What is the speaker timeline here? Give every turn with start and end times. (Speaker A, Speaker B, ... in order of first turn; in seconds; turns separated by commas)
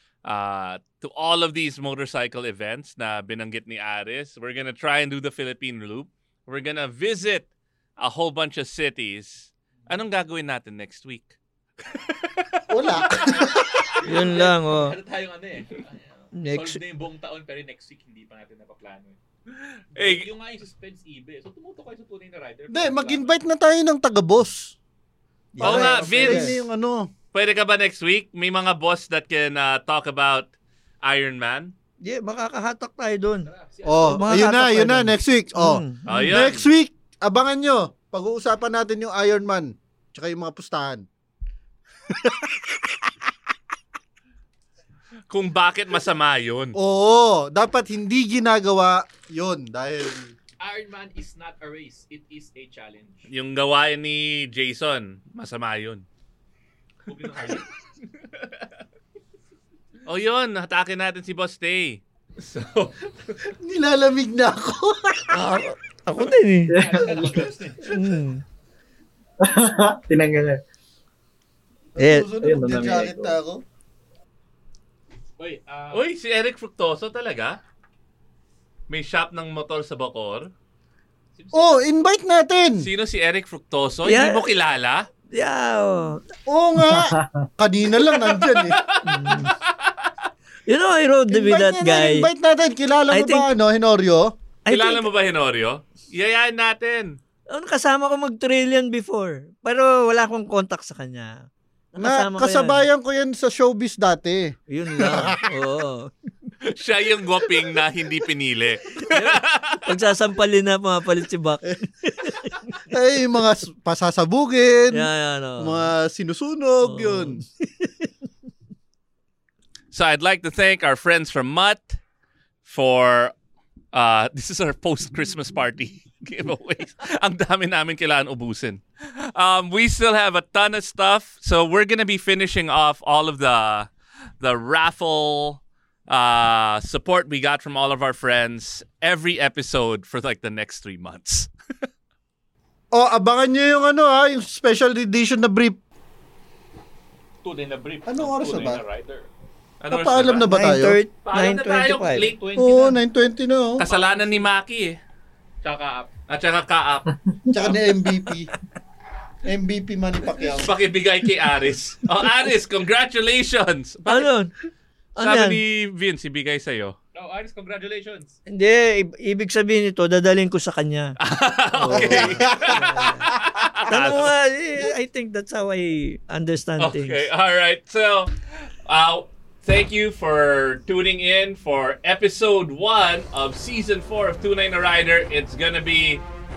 Speaker A: 0.2-12.5, Speaker B: 12.7-13.8, Speaker C: 12.9-19.2, Speaker D: 14.0-15.0, Speaker D: 16.3-16.8, Speaker C: 19.9-23.4, Speaker A: 19.9-20.3, Speaker B: 22.7-24.7, Speaker D: 25.5-26.6, Speaker B: 25.6-27.1, Speaker A: 25.6-26.6, Speaker A: 27.3-30.5, Speaker A: 31.0-31.7, Speaker D: 32.0-33.5, Speaker C: 33.4-34.5, Speaker B: 33.9-41.0, Speaker D: 34.0-36.0, Speaker A: 36.0-36.7, Speaker A: 45.3-46.8, Speaker B: 46.7-50.3, Speaker C: 50.6-53.3, Speaker A: 53.3-56.0, Speaker C: 57.0-57.7, Speaker C: 58.2-58.6, Speaker A: 60.0-63.3, Speaker B: 63.6-65.3, Speaker D: 65.3-66.8, Speaker E: 66.7-67.5, Speaker C: 66.7-68.1, Speaker D: 67.9-68.4, Speaker E: 69.4-70.6, Speaker B: 72.0-73.6, Speaker D: 72.0-72.3, Speaker E: 72.4-73.3, Speaker C: 75.4-76.1, Speaker A: 75.9-77.6, Speaker A: 78.9-80.5, Speaker C: 81.3-81.8, Speaker B: 81.5-82.9, Speaker A: 82.8-85.1, Speaker D: 84.0-84.5, Speaker D: 85.3-86.2, Speaker B: 86.5-88.8, Speaker E: 86.9-87.5, Speaker A: 88.5-89.9, Speaker D: 89.0-89.5, Speaker D: 90.7-92.3, Speaker B: 91.3-94.3, Speaker D: 93.1-93.5, Speaker D: 94.7-95.0, Speaker A: 94.7-97.2, Speaker D: 97.5-102.8, Speaker B: 102.0-105.4, Speaker D: 104.7-106.1, Speaker A: 106.7-109.8, Speaker D: 109.0-112.5, Speaker B: 112.9-115.1, Speaker D: 114.9-115.9, Speaker B: 115.6-117.4, Speaker D: 116.8-118.1, Speaker A: 119.9-122.0, Speaker A: 122.6-123.3, Speaker A: 123.9-133.9, Speaker A: 134.4-141.5, Speaker B: 142.9-145.8, Speaker C: 147.4-149.3, Speaker B: 148.1-148.8, Speaker A: 149.8-150.6, Speaker B: 149.9-151.0, Speaker D: 150.5-152.3, Speaker C: 151.2-153.0, Speaker A: 151.3-152.4, Speaker B: 152.6-153.8, Speaker A: 153.8-155.0, Speaker C: 153.8-154.5, Speaker C: 155.6-156.1, Speaker A: 156.3-157.0, Speaker B: 157.5-158.5, Speaker B: 159.4-160.7, Speaker A: 160.6-164.3, Speaker D: 164.1-164.5, Speaker D: 165.2-165.6, Speaker A: 165.2-166.9, Speaker C: 167.1-168.3, Speaker D: 168.5-171.2, Speaker A: 171.2-174.3, Speaker D: 171.7-173.3, Speaker B: 171.9-172.7, Speaker D: 173.8-177.2, Speaker A: 176.8-178.3, Speaker A: 178.8-186.2